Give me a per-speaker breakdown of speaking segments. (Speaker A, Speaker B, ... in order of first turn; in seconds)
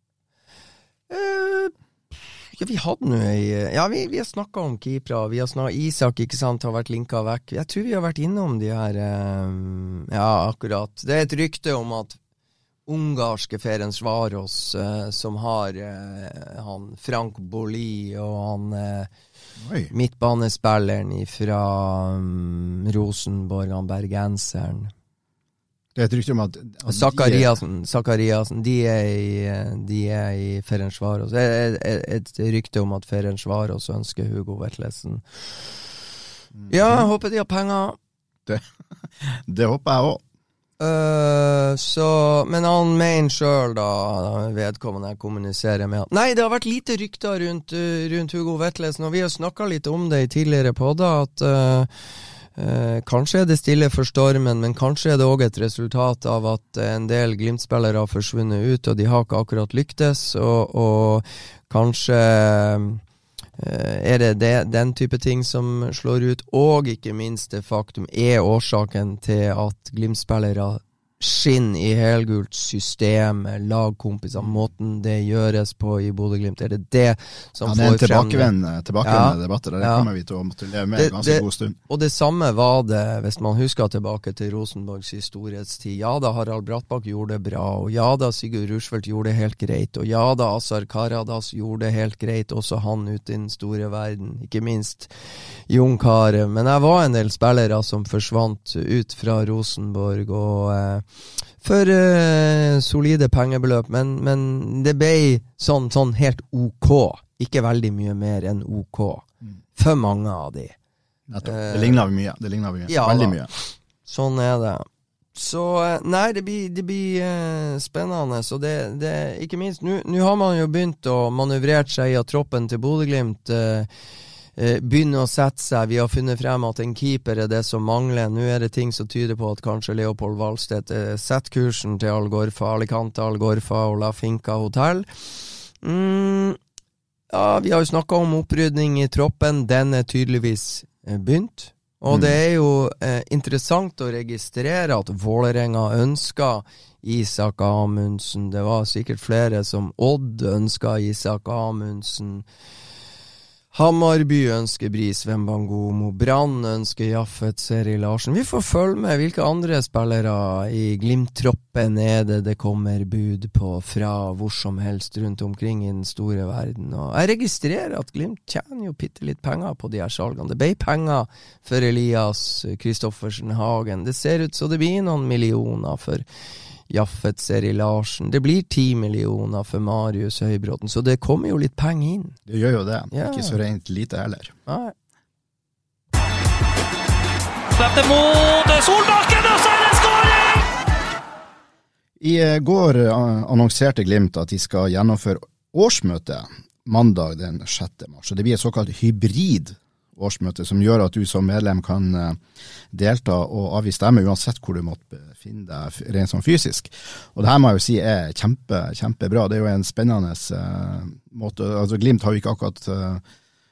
Speaker A: 1.1-1.7, 2.6-12.2, 12.9-19.1, 19.9-24.9, 26.9-35.2, 36.7-38.0, 40.8-51.9, 52.6-63.0, 63.6-80.1, 81.0-95.1, 95.7-101.0, 101.6-110.8, 111.4-112.0, 112.9-123.9, 124.6-135.1, 135.8-136.6, 137.3-152.4, 153.7-176.2, 176.9-182.4, 183.1-183.6, 184.7-184.9
Speaker B: 19.6-19.9, 25.9-27.6, 36.6-37.1, 39.2-40.2, 77.6-81.8, 111.3-113.5, 142.1-142.4, 182.5-184.6, 192.2-202.4, 202.9-213.2
Speaker C: 187.7-190.7